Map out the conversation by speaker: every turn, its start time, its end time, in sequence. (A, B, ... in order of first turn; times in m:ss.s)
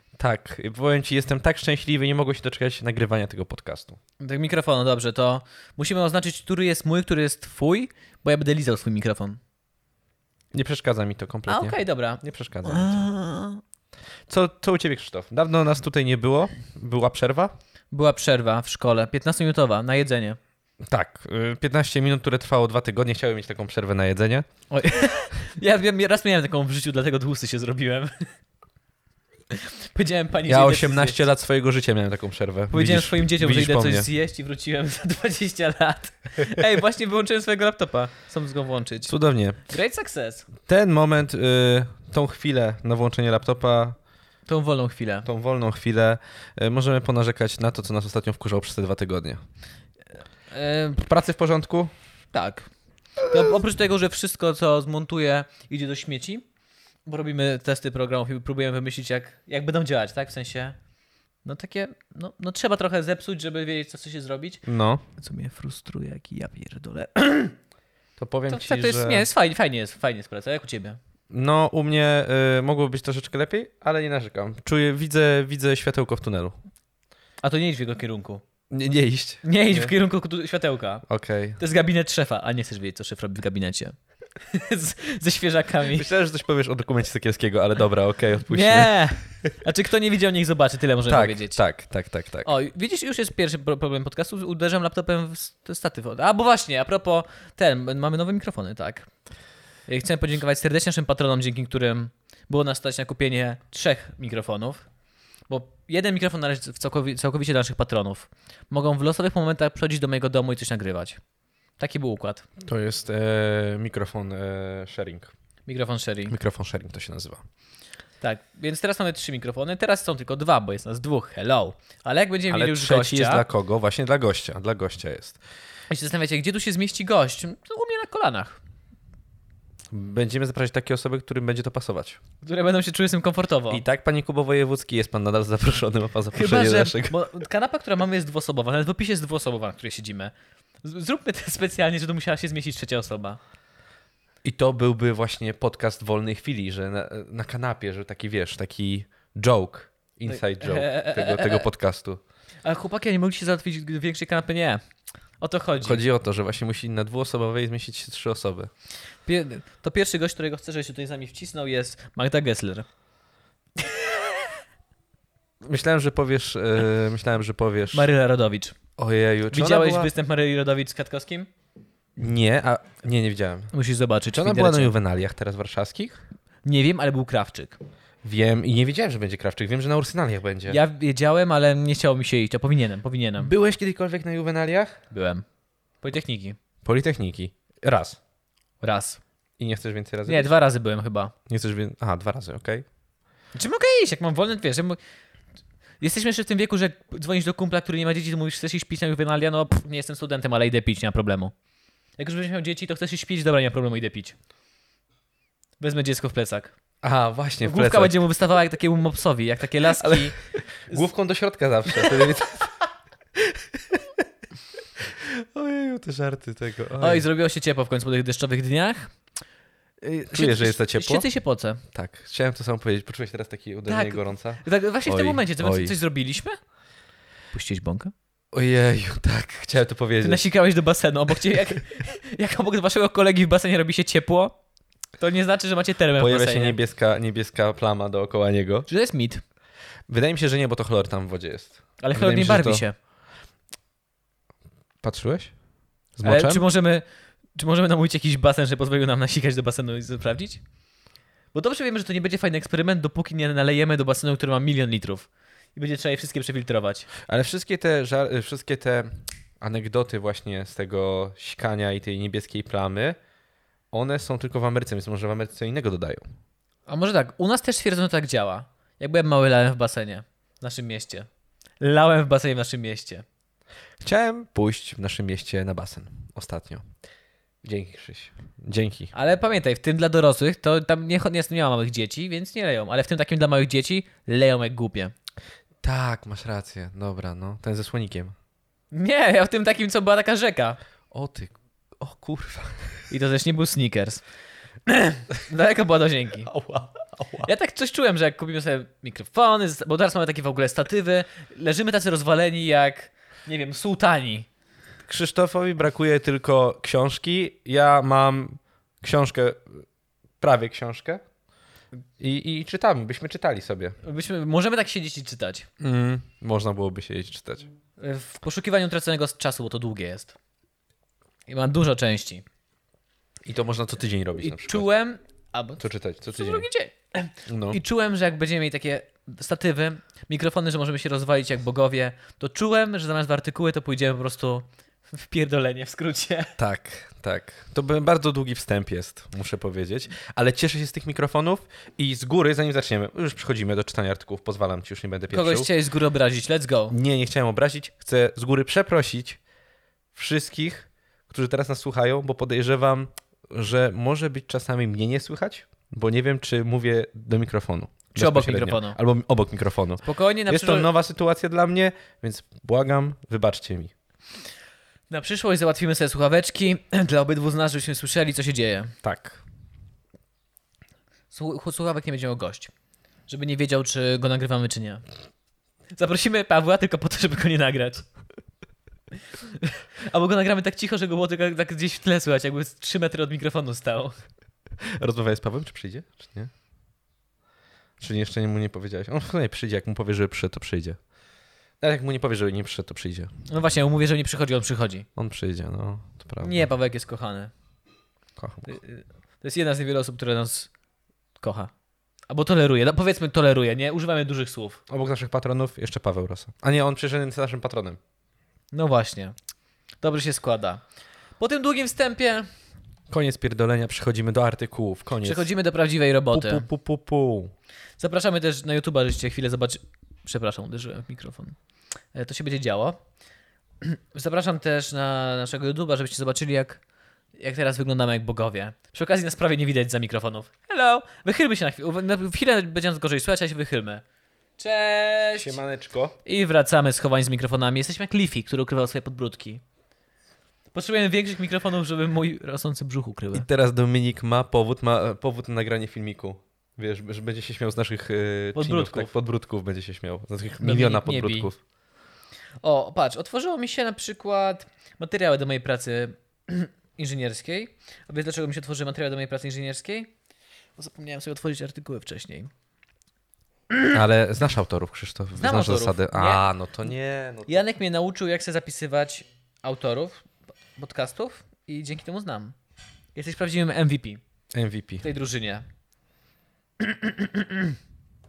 0:00.1-0:04.0 A
0:04.2-0:09.4 B
0:10.5-0:13.0 A
0:11.5-0:13.6 B
0:14.3-0:17.5 A
0:17.9-0:20.4 B
0:20.9-0:24.4 A
0:24.7-0:28.2 B
0:29.5-0:31.2 B
0:30.5-0:34.1 A
0:32.7-0:39.1 B
0:39.1-0:39.6 A
0:39.6-0:40.5 B
0:40.6-0:44.0 A
0:44.5-0:45.3 B
0:45.2-0:49.4 A
0:50.5-0:51.0 B
0:51.0-0:51.9 A
0:52.3-0:52.7 B
0:53.2-0:56.4 B
0:57.0-1:00.8 B
1:01.4-1:04.6 B
1:04.6-1:05.0 A
1:05.2-1:07.6 B
1:08.2-1:09.3 A
1:08.5-1:11.0 B
1:11.3-1:16.5 A
1:17.4-1:18.4 B
1:18.7-1:19.9 A
1:19.4-1:21.0 B
1:21.0-1:21.6 A
1:21.6-1:26.1 B
1:25.9-1:28.9 A
1:28.5-1:31.6 B
1:31.1-1:32.5 A
1:32.4-1:39.1 B
1:39.9-1:44.9 B
1:45.5-1:51.2 B
1:51.8-1:52.4 B
1:52.6-1:55.3 A
1:55.6-1:56.4 B
1:56.3-1:57.4 A
1:58.2-2:03.4 B
2:02.5-2:05.4 A
2:05.9-2:08.6 B
2:09.9-2:12.2 A
2:12.4-2:13.8 B
2:13.7-2:17.2 A
2:16.3-2:23.4 B
2:24.4-2:32.2 A
2:30.3-2:31.6 B
2:32.6-2:34.8 B
2:35.4-2:36.0 B
2:35.8-2:38.7 A
2:39.2-2:42.9 B
2:45.6-2:48.1 A
2:47.9-2:48.8 B
2:49.0-2:50.1 A
2:49.5-2:51.5 B
2:52.2-2:53.7 A
2:53.7-2:54.9 B
2:54.3-2:56.2 A
2:56.6-2:57.8 B
2:58.2-3:00.8 A
3:00.7-3:03.5 B
3:03.4-3:05.0 A
3:05.1-3:05.4 B
3:06.0-3:06.6 B
3:06.8-3:08.2 A
3:08.8-3:09.2 B
3:09.6-3:10.5 A
3:10.2-3:11.3 B
3:11.5-3:12.8 A
3:13.5-3:15.0 B
3:16.0-3:21.5 B
3:22.2-3:24.3 B
3:25.8-3:26.7 B
3:27.0-3:28.2 A
3:27.6-3:30.4 B
3:30.0-3:32.8 A
3:31.9-3:32.3 B
3:33.4-3:34.2 A
3:35.0-3:37.2 A
3:37.0-3:39.1 B
3:40.0-3:41.8 B
3:40.3-3:41.3 A
3:41.9-3:46.0 A
3:43.9-3:46.6 B
3:47.5-3:48.1 B
3:48.5-3:50.4 A
3:50.2-3:54.5 B
3:55.2-3:56.8 B
3:56.2-3:58.9 A
3:58.9-3:59.4 B
4:00.1-4:02.8 A
4:02.0-4:02.9 B
4:05.0-4:05.5 A
4:06.2-4:06.6 A
4:06.2-4:07.0 B
4:07.6-4:10.6 B
4:11.5-4:17.1 B
4:17.2-4:23.2 A
4:23.9-4:26.2 A
4:26.9-4:31.3 B
4:31.8-4:33.2 B
4:34.0-4:36.8 A
4:37.6-4:39.1 A
4:39.1-4:45.1 B
4:45.8-4:48.3 A
4:48.9-4:50.8 B
4:51.1-4:53.0 A
4:53.1-4:54.2 B
4:54.8-4:56.5 B
4:56.4-4:57.5 A
4:57.4-5:04.5 B
5:05.0-5:09.8 A
5:10.4-5:11.2 A
5:12.2-5:14.0 A
5:14.0-5:15.7 B
5:15.8-5:17.7 A
5:18.0-5:20.3 B
5:21.5-5:22.4 B
5:23.4-5:24.9 A
5:24.4-5:36.5 B
5:25.8-5:26.7 A
5:27.5-5:27.8 A
5:36.6-5:45.7 A
5:45.3-5:46.9 B
5:46.9-5:49.4 A
5:50.1-6:03.9 A
5:58.1-5:59.0 B
6:00.0-6:00.9 B
6:05.1-6:08.9 B
6:09.0-6:09.4 A
6:11.3-6:12.7 B
6:13.3-6:15.0 B
6:15.9-6:18.0 B
6:19.4-6:24.2 B
6:24.8-6:26.5 A
6:28.0-6:31.0 A
6:31.8-6:33.3 A
6:33.5-6:35.1 B
6:35.2-6:36.6 A
6:36.4-6:37.5 B
6:38.4-6:38.8 A
6:38.7-6:40.7 B
6:41.4-6:41.7 B
6:42.3-6:44.8 B
6:44.9-6:48.0 A
6:48.7-6:49.3 B
6:50.0-6:50.8 B
6:51.4-6:52.5 B
6:53.1-6:55.5 A
6:55.2-6:56.6 B
6:56.3-6:57.5 A
6:58.0-7:01.6 B
7:02.1-7:03.0 B
7:03.8-7:06.8 B
7:07.4-7:14.0 B
7:14.6-7:15.6 B
7:15.3-7:16.2 A
7:16.2-7:19.6 B
7:20.7-7:23.4 B
7:23.3-7:31.6 A
7:28.5-7:29.1 B
7:30.6-7:31.5 B
7:32.6-7:40.1 B
7:40.8-7:42.5 B
7:43.9-7:47.6 A
7:45.4-7:46.4 B
7:47.5-7:52.6 B
7:53.1-7:54.2 B
7:54.5-7:55.0 A
7:55.0-7:55.6 B
7:56.8-7:57.8 B